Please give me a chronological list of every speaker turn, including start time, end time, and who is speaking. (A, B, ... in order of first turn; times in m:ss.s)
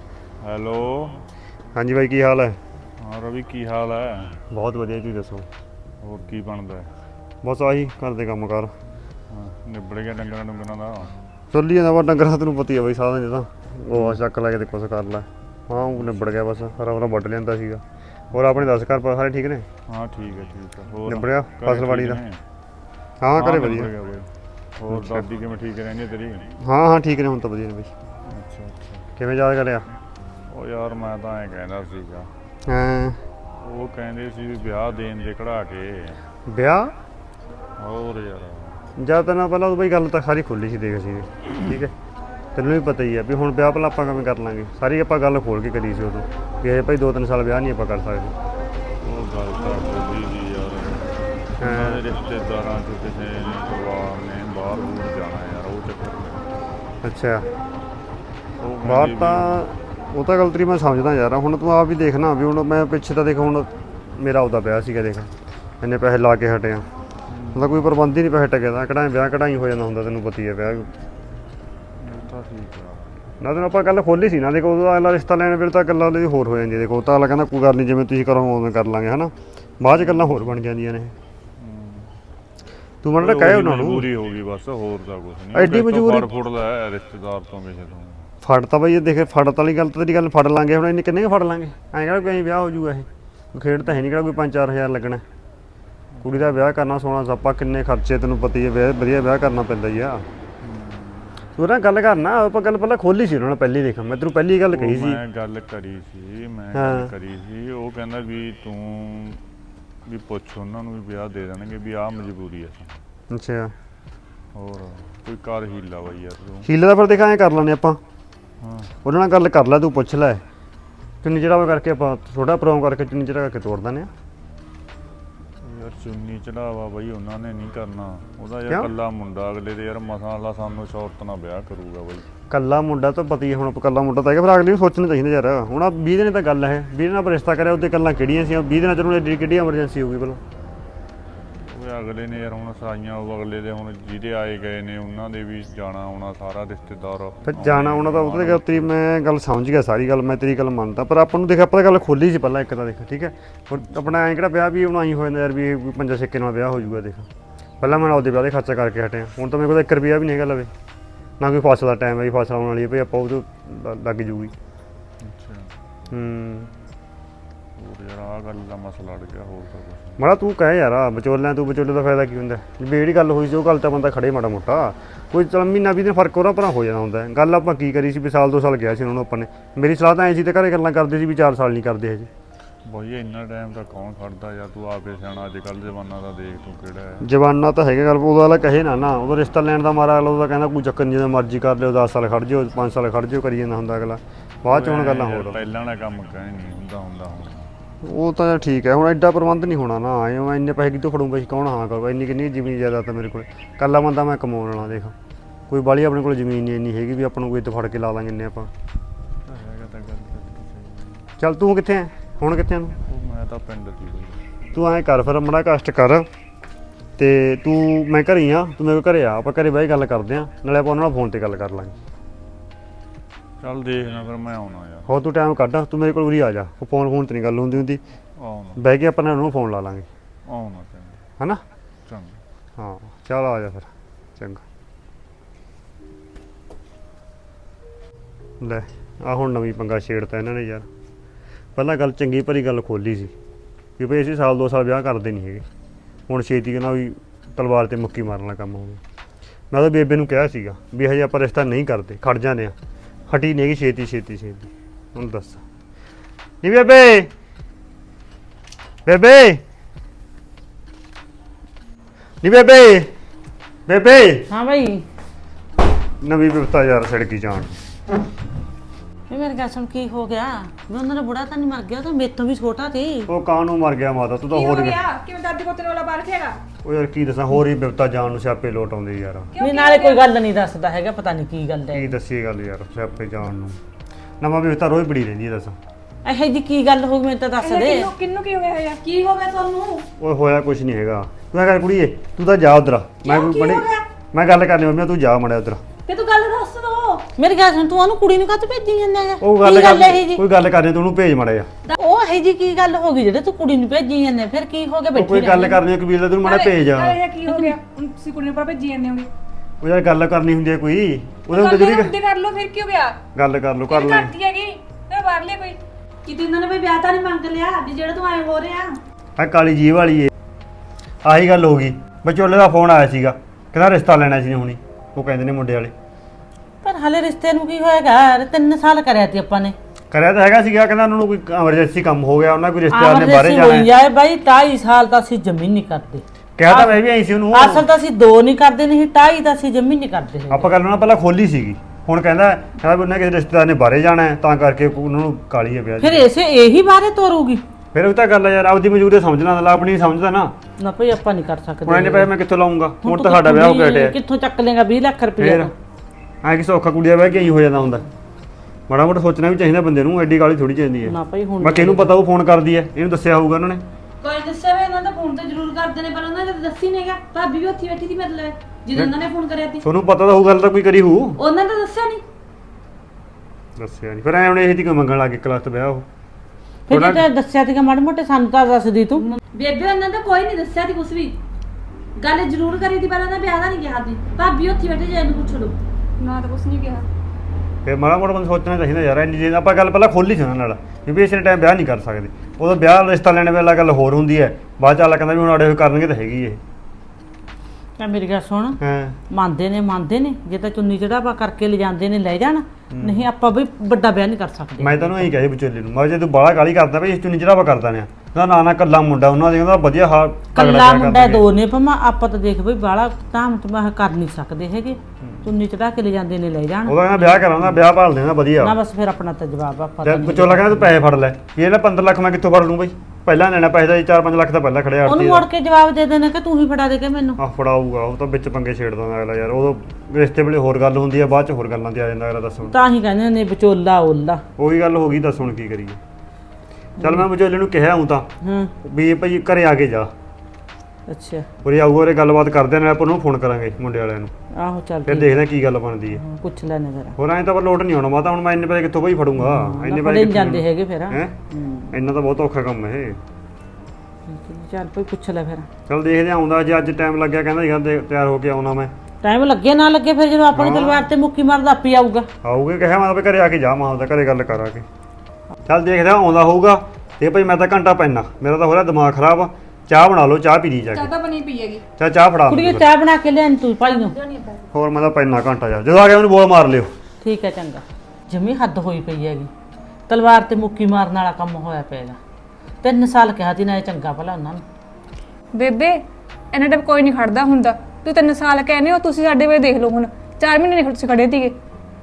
0:00.4-0:01.2 A
0:01.7-0:02.6 B
0:03.0-0:04.4 A
0:04.5-0:05.5 B
0:06.0-0:06.9 A
0:07.4-0:08.7 B
0:09.3-0:11.1 A
0:11.5-0:17.8 B
0:13.9-0:14.2 A
0:15.7-0:16.3 A
0:18.3-0:19.6 B
0:19.9-0:22.4 A
0:21.1-0:22.2 B
0:23.2-0:23.9 B
0:23.3-0:26.5 A
0:24.9-0:25.2 B
0:26.6-0:27.9 B
0:28.3-0:29.1 A
0:29.2-0:29.8 B
0:30.5-0:32.3 A
0:32.6-0:33.2 B
0:33.6-0:36.2 A
0:36.4-0:36.9 B
0:37.8-0:38.8 A
0:39.0-0:41.9 B
0:42.5-0:48.3 B
0:49.0-0:56.6 A
0:51.6-0:52.0 B
0:57.0-0:57.4 B
0:58.6-0:59.6 A
0:58.8-1:06.9 B
1:07.3-1:07.9 A
1:07.5-1:10.9 B
1:12.0-1:13.2 A
1:13.4-1:21.1 B
1:20.0-1:20.4 A
1:21.6-1:22.1 A
1:23.0-1:24.1 B
1:23.2-1:28.3 A
1:25.5-1:26.3 B
1:28.4-1:35.2 B
1:36.1-1:36.5 A
1:36.2-1:40.3 B
1:40.6-1:41.4 A
1:41.6-1:45.2 B
1:44.7-1:49.4 A
1:46.7-1:47.1 B
1:50.0-1:53.0 A
1:53.3-1:53.7 B
1:54.5-1:56.7 A
1:56.6-1:58.0 B
1:58.6-1:58.9 A
1:59.0-2:00.4 B
2:01.2-2:04.1 B
2:05.6-2:12.3 A
2:12.5-2:20.4 B
2:21.6-2:28.9 A
2:27.4-2:37.3 B
2:37.8-2:40.7 B
2:41.4-2:44.5 B
2:45.2-2:45.7 A
2:46.1-2:46.7 B
2:47.8-2:50.2 A
2:50.2-3:02.3 B
3:02.8-3:07.2 A
3:07.2-3:15.6 B
3:14.7-3:17.7 A
3:18.0-3:25.1 B
3:25.7-3:28.7 B
3:29.4-3:31.3 A
3:31.4-3:33.0 B
3:33.0-3:34.4 A
3:34.7-3:36.3 B
3:37.2-3:41.9 B
3:43.6-3:45.1 A
3:45.0-3:48.0 B
3:48.4-3:48.8 A
3:48.8-3:50.1 B
3:50.4-3:51.2 A
3:52.0-3:52.4 A
3:52.8-3:54.6 B
3:58.6-4:00.9 B
4:01.8-4:03.3 B
4:04.0-4:05.6 B
4:06.3-4:09.0 B
4:09.7-4:12.7 B
4:13.3-4:15.6 B
4:16.6-4:17.3 B
4:19.0-4:19.6 B
4:22.4-4:23.1 B
4:23.9-4:24.5 B
4:24.5-4:25.0 C
4:26.2-4:27.7 B
4:29.3-4:33.3 C
4:33.3-4:35.0 B
4:34.5-4:36.6 D
4:36.8-4:39.5 B
4:39.5-4:40.2 E
4:39.6-4:42.1 C
4:41.9-4:43.8 B
4:44.4-4:45.8 B
4:46.2-4:48.1 C
4:47.6-4:48.4 E
4:47.8-4:49.0 D
4:49.0-4:50.0 E
4:50.2-4:55.8 B
4:53.3-4:53.8 E
4:56.7-4:57.2 E
4:57.4-5:00.4 C
4:59.4-5:01.7 B
5:01.9-5:05.8 C
5:05.1-5:07.2 B
5:06.4-5:09.3 D
5:07.5-5:07.7 C
5:09.8-5:12.1 B
5:11.5-5:13.2 D
5:13.3-5:14.3 B
5:13.9-5:15.8 D
5:16.2-5:17.1 E
5:19.4-5:20.3 B
5:21.2-5:25.9 B
5:26.8-5:29.8 C
5:30.1-5:33.9 B
5:32.9-5:37.0 C
5:36.6-5:37.9 B
5:37.5-5:40.7 C
5:40.5-5:46.3 B
5:46.0-5:47.6 C
5:47.9-5:50.5 B
5:50.8-5:52.3 C
5:51.8-5:54.2 B
5:53.0-5:55.7 C
5:55.4-5:55.7 B
5:56.4-5:58.0 B
5:58.9-6:03.8 B
6:01.0-6:02.1 C
6:04.2-6:04.6 E
6:05.2-6:05.6 E
6:09.8-6:11.4 B
6:11.4-6:12.2 E
6:13.8-6:16.0 B
6:16.9-6:19.2 C
6:16.9-6:17.3 B
6:24.0-6:27.1 E
6:26.2-6:26.5 D
6:27.8-6:36.6 B
6:38.0-6:38.8 C
6:38.8-6:39.2 B
6:39.3-6:45.3 C
6:42.9-6:43.2 B
6:44.8-6:51.4 B
6:50.5-6:57.8 C
6:55.2-6:55.5 B
6:56.8-6:58.8 B
6:58.6-7:01.0 C
7:00.0-7:05.5 B
7:05.0-7:07.4 C
7:07.4-7:12.8 B
7:12.6-7:14.4 C
7:14.6-7:16.0 B
7:17.0-7:17.3 C
7:17.0-7:18.3 B
7:18.4-7:18.7 C
7:18.8-7:20.1 B
7:21.1-7:21.5 C
7:21.6-7:24.3 B
7:24.5-7:25.3 C
7:25.0-7:26.2 B
7:26.2-7:27.2 C
7:27.2-7:31.4 B
7:29.4-7:32.0 C
7:31.9-7:33.2 B
7:34.3-7:35.7 C
7:35.9-7:38.9 B
7:39.2-7:42.3 C
7:40.5-7:41.1 B
7:42.4-7:44.8 B
7:45.6-7:51.1 B
7:51.0-7:51.8 D
7:52.0-7:52.9 B
7:52.5-7:54.3 C
7:54.3-7:54.6 E
7:54.7-7:56.9 B
7:57.2-7:59.5 C
8:00.1-8:02.2 C
8:02.8-8:04.6 C
8:05.5-8:05.9 D
8:06.5-8:11.4 D